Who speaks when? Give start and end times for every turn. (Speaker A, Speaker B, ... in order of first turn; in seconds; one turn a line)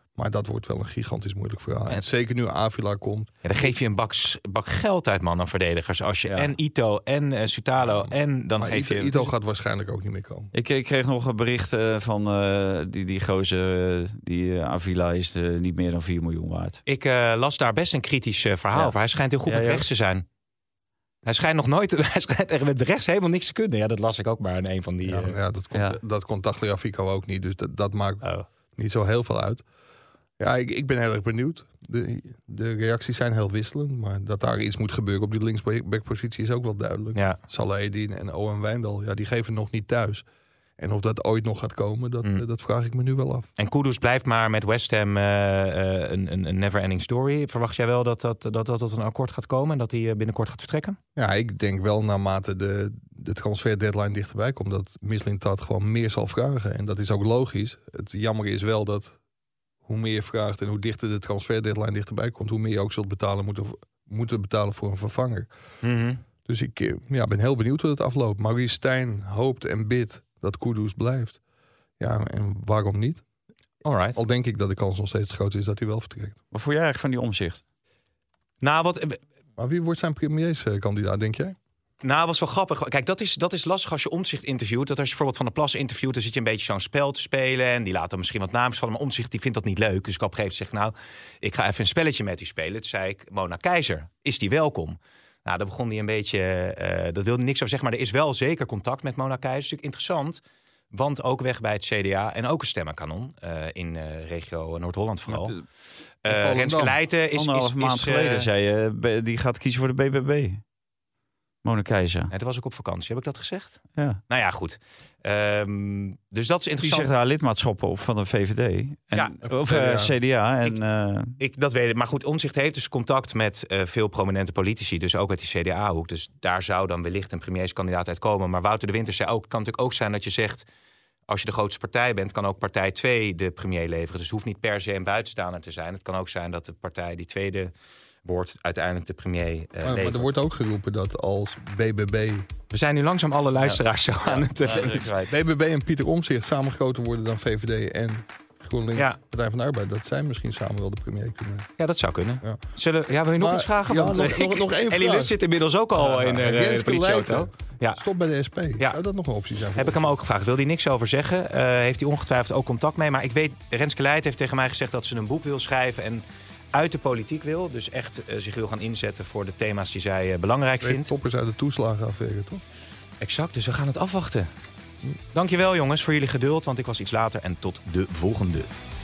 Speaker A: 0.1-3.4
Speaker B: 3.4-9.3
Speaker C: 6.2-6.5
Speaker A: 7.8-10.5
Speaker C: 10.5-16.8
Speaker B: 16.9-20.2
Speaker C: 19.4-19.9
Speaker B: 21.2-25.4
Speaker A: 25.1-29.6
Speaker C: 25.7-26.0
Speaker B: 28.2-28.5
Speaker A: 30.4-40.2
Speaker A: 40.8-43.5
Speaker B: 43.6-51.0
Speaker A: 51.2-59.2
Speaker A: 59.9-65.5
Speaker B: 65.8-66.2
Speaker A: 66.5-71.4
Speaker A: 72.0-73.2
Speaker B: 73.8-74.2
Speaker A: 74.2-76.4
Speaker C: 76.5-77.6
Speaker B: 78.6-79.2
Speaker A: 79.6-81.6
Speaker B: 82.0-105.5
Speaker C: 105.3-105.6
Speaker B: 106.2-108.5
Speaker A: 106.3-107.0
Speaker C: 107.3-110.6
Speaker C: 111.6-112.3
Speaker B: 112.3-117.1
Speaker C: 116.8-121.4
Speaker A: 119.5-120.1
Speaker B: 121.4-130.7
Speaker B: 131.3-137.7
Speaker B: 138.2-140.3
Speaker A: 139.8-142.5
Speaker B: 142.7-145.1
Speaker C: 143.6-145.3
Speaker A: 144.7-151.7
Speaker B: 151.8-158.0
Speaker A: 153.4-155.3
Speaker A: 156.0-160.0
Speaker B: 159.8-171.1
Speaker A: 170.8-172.6
Speaker B: 173.2-174.5
Speaker B: 175.3-178.7